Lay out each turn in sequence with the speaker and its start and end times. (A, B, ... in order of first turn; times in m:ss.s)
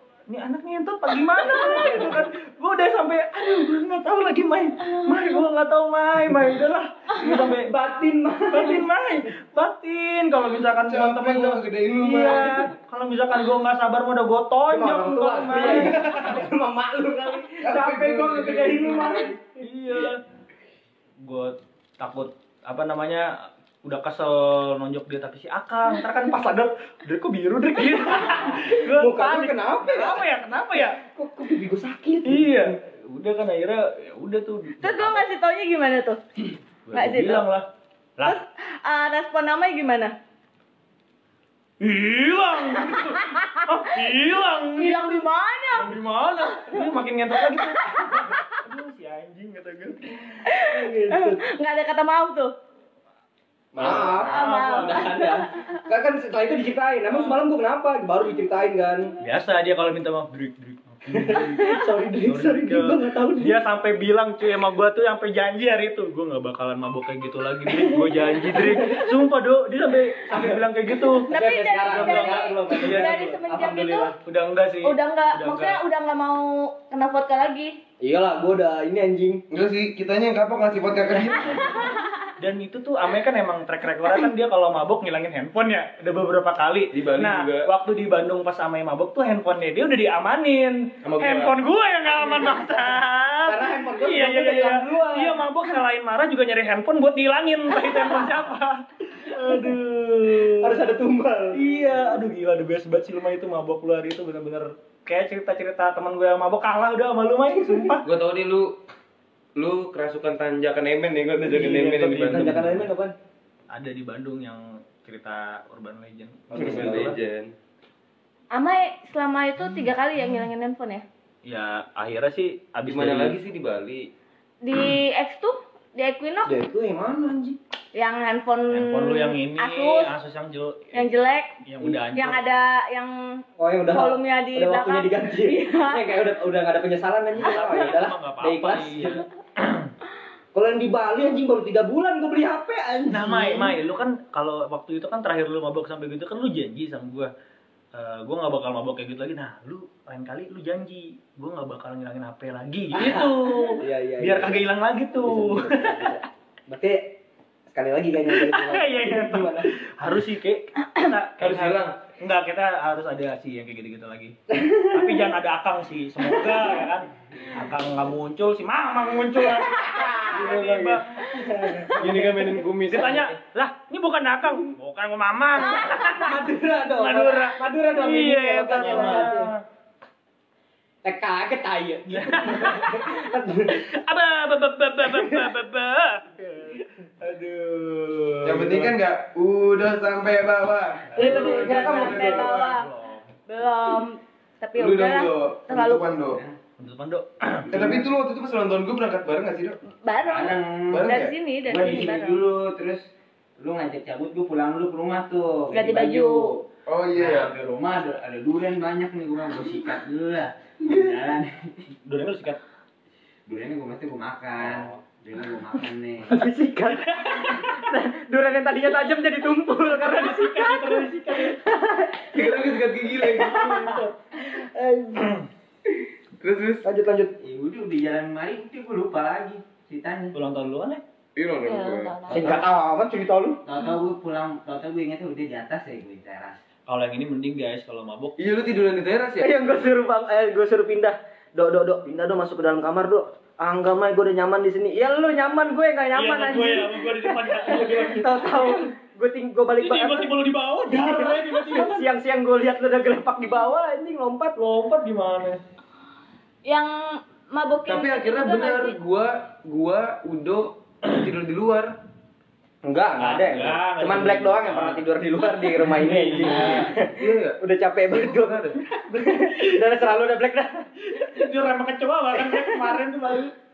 0:00.3-0:07.7 A
0:01.4-0:02.2 B
0:07.4-0:08.9 B
0:08.5-0:16.0 A
0:10.9-0:12.7 C
0:14.7-0:19.6 B
0:15.6-0:16.2 C
0:17.6-0:19.3 C
0:19.6-0:20.2 A
0:21.2-0:23.3 A
0:23.8-0:31.0 A
0:28.8-0:32.7 B
0:32.2-0:35.2 A
0:34.8-0:36.2 D
0:36.9-0:37.6 A
0:36.9-0:37.4 D
0:38.2-0:40.1 D
0:41.8-0:45.2 A
0:43.2-0:43.6 D
0:44.7-0:46.0 D
0:45.7-0:50.5 A
0:50.5-0:52.5 D
0:50.7-0:51.4 B
0:53.7-0:59.1 B
0:53.8-0:54.1 C
0:53.8-0:55.1 A
0:54.2-0:55.4 D
0:59.2-1:01.6 A
1:01.1-1:03.6 B
1:02.3-1:11.3 A
1:07.9-1:09.1 B
1:10.3-1:10.6 B
1:11.2-1:14.1 D
1:11.3-1:14.2 B
1:11.8-1:13.3 A
1:14.2-1:15.8 A
1:14.8-1:17.8 D
1:18.0-1:19.4 B
1:19.5-1:21.9 C
1:22.4-1:40.8 A
1:26.9-1:27.7 C
1:31.0-1:31.6 C
1:33.4-1:35.4 B
1:40.4-1:41.6 B
1:41.5-1:48.0 A
1:48.0-1:48.8 C
1:49.6-1:52.8 C
1:51.4-1:53.1 B
1:53.7-1:57.2 A
1:56.5-1:57.5 C
1:56.5-1:57.1 B
1:58.5-2:01.0 D
2:01.4-2:03.4 A
2:02.8-2:04.1 C
2:04.6-2:06.6 D
2:06.4-2:07.6 B
2:07.9-2:10.1 D
2:08.7-2:11.1 A
2:10.9-2:11.5 D
2:11.6-2:12.4 A
2:12.1-2:16.1 D
2:13.6-2:19.2 B
2:17.4-2:19.9 A
2:20.5-2:23.8 B
2:23.1-2:27.3 A
2:27.9-2:36.1 A
2:32.9-2:37.2 B
2:37.7-2:39.7 B
2:38.3-2:51.2 A
2:41.4-2:41.9 C
2:44.6-2:45.2 B
2:49.9-2:50.3 B
2:50.3-2:51.0 C
2:51.2-2:53.2 B
2:51.9-2:53.3 C
2:52.9-2:59.6 A
2:56.1-2:59.5 B
3:01.0-3:03.8 B
3:02.1-3:08.9 A
3:05.0-3:05.5 B
3:08.4-3:12.7 C
3:11.1-3:12.5 B
3:11.2-3:12.9 D
3:11.2-3:13.2 A
3:13.5-3:16.1 D
3:14.7-3:16.4 C
3:16.2-3:16.5 E
3:16.8-3:18.0 A
3:17.7-3:19.8 C
3:20.0-3:22.4 D
3:20.2-3:21.1 E
3:20.9-3:21.3 C
3:21.6-3:31.5 E
3:25.7-3:26.5 D
3:26.9-3:27.5 C
3:32.0-3:32.6 A
3:33.4-3:36.3 E
3:36.3-3:42.5 B
3:39.9-3:41.6 A
3:42.3-3:43.9 C
3:43.2-3:45.4 B
3:43.5-3:44.0 A
3:46.4-3:46.8 C
3:46.8-3:47.4 B
3:47.4-3:50.3 E
3:50.3-3:51.0 A
3:51.3-3:52.2 C
3:51.6-3:52.5 D
3:52.3-3:52.6 E
3:52.3-3:53.6 B
3:53.6-3:56.6 E
3:56.9-3:58.7 A
3:58.4-3:59.5 C
3:59.4-4:14.6 B
4:06.1-4:08.7 A
4:09.8-4:12.0 A
4:14.6-4:15.6 A
4:16.6-4:19.0 D
4:17.9-4:21.9 C
4:22.8-4:31.5 B
4:23.2-4:25.1 A
4:25.8-4:26.9 A
4:26.7-4:28.8 C
4:29.3-4:29.7 A
4:31.1-4:33.5 A
4:32.3-4:33.0 B